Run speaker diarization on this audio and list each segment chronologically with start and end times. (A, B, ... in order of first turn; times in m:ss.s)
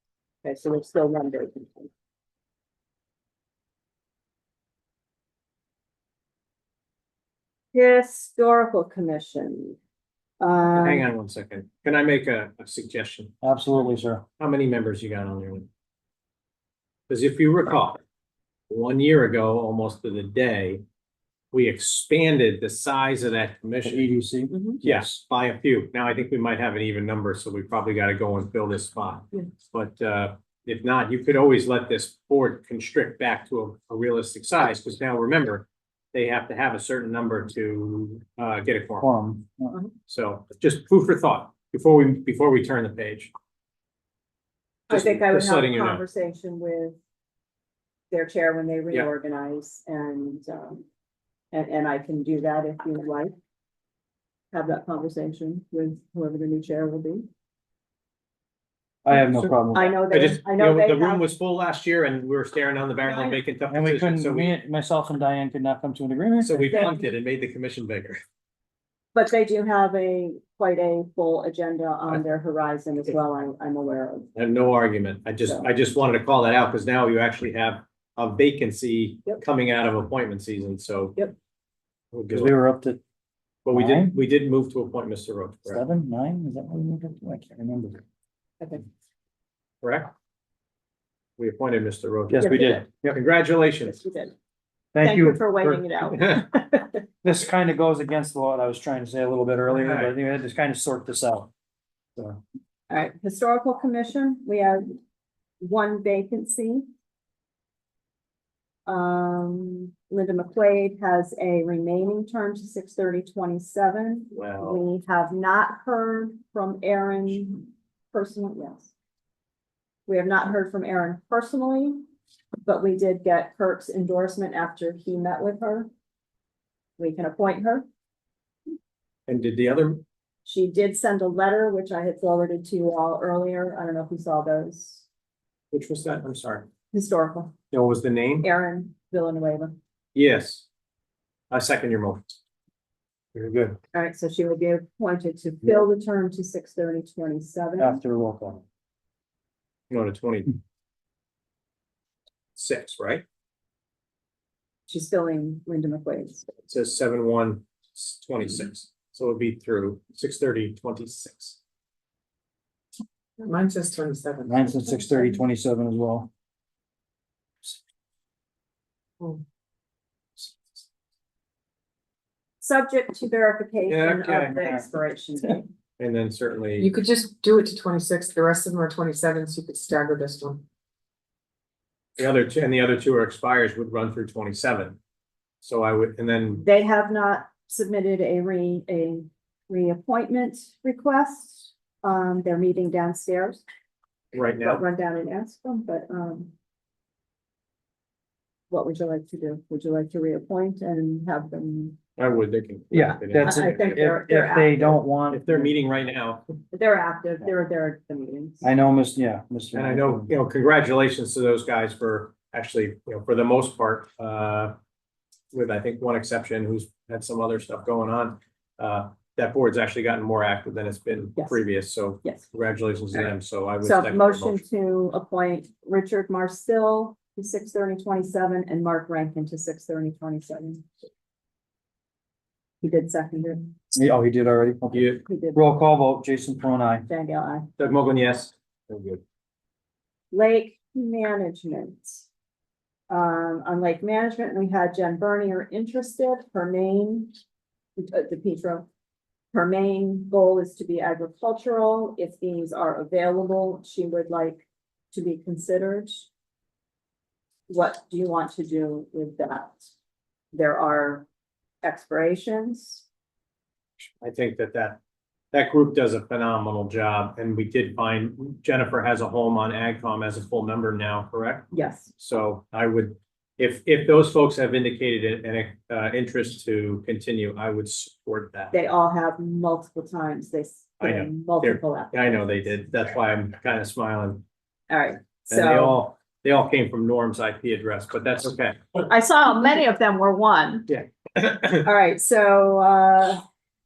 0:00.4-0:01.9 A
0:07.7-0:09.8 A
0:10.4-0:11.1 A
0:10.8-0:13.3 B
0:13.4-0:14.2 C
0:14.4-0:15.7 B
0:17.1-0:18.0 B
0:18.7-0:20.8 B
0:21.5-0:24.1 B
0:23.8-0:25.2 C
0:24.5-0:24.8 A
0:24.8-0:39.1 B
0:39.0-0:39.8 C
0:40.1-0:43.3 B
0:44.9-0:46.0 B
0:44.9-0:47.0 A
0:48.1-0:50.8 A
0:51.5-0:53.3 A
0:54.5-0:57.3 A
0:59.0-0:59.9 C
0:59.7-1:01.2 A
1:00.1-1:04.5 B
1:03.0-1:03.4 A
1:03.7-1:06.9 C
1:06.4-1:08.2 B
1:09.2-1:14.3 A
1:14.4-1:21.2 B
1:22.1-1:22.5 B
1:22.3-1:23.0 C
1:23.6-1:25.8 B
1:23.7-1:24.2 C
1:25.7-1:28.0 C
1:29.8-1:30.1 B
1:31.4-1:34.0 B
1:32.3-1:33.2 C
1:32.4-1:32.8 A
1:33.9-1:34.3 A
1:34.9-1:35.8 C
1:35.0-1:37.0 A
1:37.2-1:41.5 C
1:39.7-1:40.1 B
1:42.9-1:45.0 A
1:45.6-1:46.9 A
1:48.9-1:58.9 A
1:54.3-1:54.8 B
2:00.1-2:02.0 A
2:02.6-2:05.9 A
2:07.0-2:07.9 A
2:09.3-2:10.0 B
2:10.4-2:15.0 A
2:15.7-2:16.7 B
2:16.9-2:17.6 A
2:17.7-2:18.5 B
2:18.4-2:19.8 A
2:20.2-2:20.7 B
2:21.5-2:22.4 B
2:23.4-2:23.8 C
2:23.9-2:28.0 A
2:27.8-2:28.6 C
2:29.9-2:30.6 B
2:32.6-2:33.2 B
2:34.9-2:36.5 A
2:36.7-2:41.6 B
2:43.4-2:45.0 D
2:44.5-2:46.3 C
2:52.6-2:55.7 A
2:53.9-2:54.6 B
2:54.5-2:54.8 C
2:56.0-2:56.9 B
2:56.8-3:00.6 D
3:02.2-3:05.0 B
3:05.6-3:06.6 B
3:06.6-3:13.6 A
3:14.3-3:14.8 B
3:14.6-3:16.5 A
3:18.7-3:22.0 A
3:22.2-3:24.0 B
3:22.9-3:25.7 C
3:23.3-3:25.0 A
3:25.3-3:26.4 B
3:26.7-3:28.7 A
3:28.6-3:30.3 C
3:29.7-3:34.8 B
3:35.5-3:44.6 B
3:41.4-3:41.6 A
3:43.8-3:50.8 A
3:52.8-3:53.8 A
3:53.9-3:57.1 C
3:54.9-3:55.2 B
3:55.2-3:55.6 A
3:57.1-3:57.7 A
3:57.8-3:59.2 B
4:00.3-4:02.3 A
4:03.1-4:07.4 A
4:08.0-4:08.9 A
4:09.5-4:16.3 A
4:17.7-4:19.8 A
4:20.5-4:21.3 A
4:21.8-4:23.0 A
4:24.2-4:25.0 B
4:25.5-4:38.7 B
4:31.7-4:32.1 A
4:38.7-4:42.7 A
4:41.0-4:44.4 B
4:44.9-4:46.0 A
4:45.5-4:49.0 B
4:49.0-4:50.9 A
4:50.9-4:51.9 B
4:51.8-4:53.4 A